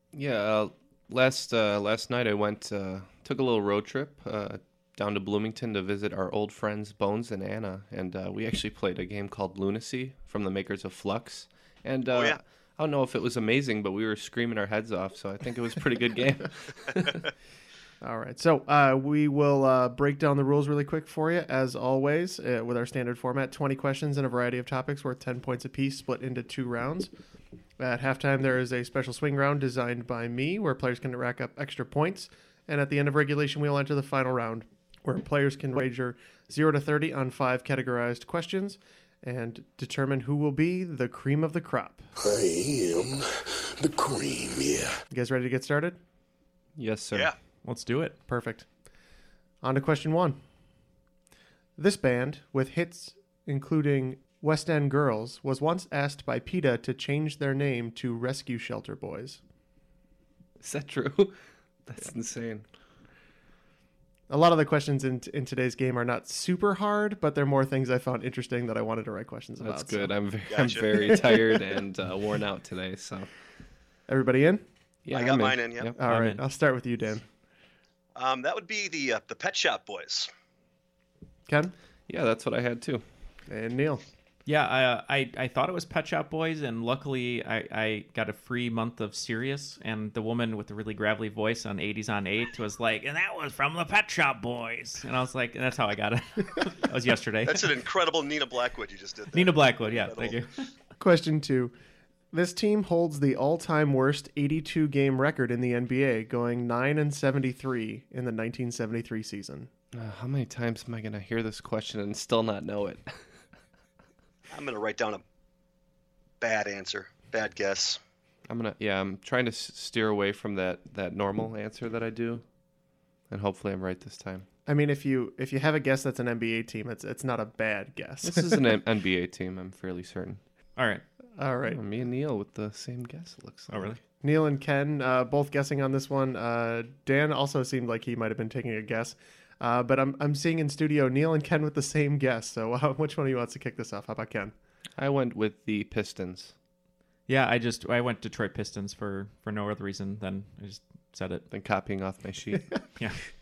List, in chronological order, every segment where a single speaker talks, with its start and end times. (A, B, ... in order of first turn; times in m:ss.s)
0:00.1-0:17.2 A
0:12.1-0:12.4 B
0:18.0-0:27.1 C
0:27.8-0:42.1 C
0:42.2-0:43.2 D
0:43.8-0:44.9 D
0:45.1-0:46.0 C
0:46.8-0:47.3 A
0:47.6-0:48.2 E
0:48.3-0:48.7 C
0:49.6-0:50.4 C
0:51.8-0:59.4 C
1:00.6-1:02.6 A
1:04.3-1:10.1 C
1:09.6-1:13.3 A
1:10.5-1:10.9 B
1:11.0-1:11.5 C
1:14.1-1:14.6 C
1:15.0-1:16.0 A
1:15.1-1:15.9 B
1:16.0-1:17.2 C
1:16.0-1:16.4 E
1:18.2-1:20.3 B
1:21.5-1:21.7 C
1:22.1-1:23.0 A
1:23.5-1:24.0 C
1:24.4-1:37.7 E
1:37.4-1:40.4 B
1:39.3-1:40.7 E
1:41.0-1:41.7 C
1:42.3-1:49.7 C
1:49.9-1:53.2 A
1:54.5-1:55.2 B
1:56.4-1:58.0 B
1:58.5-2:02.4 A
2:03.3-2:04.5 A
2:04.6-2:08.6 C
2:08.2-2:10.4 A
2:10.8-2:11.0 E
2:11.4-2:11.8 C
2:11.7-2:14.0 A
2:13.7-2:14.0 E
2:14.2-2:24.5 C
2:25.0-2:26.5 A
2:27.3-2:31.5 E
2:31.5-2:32.6 A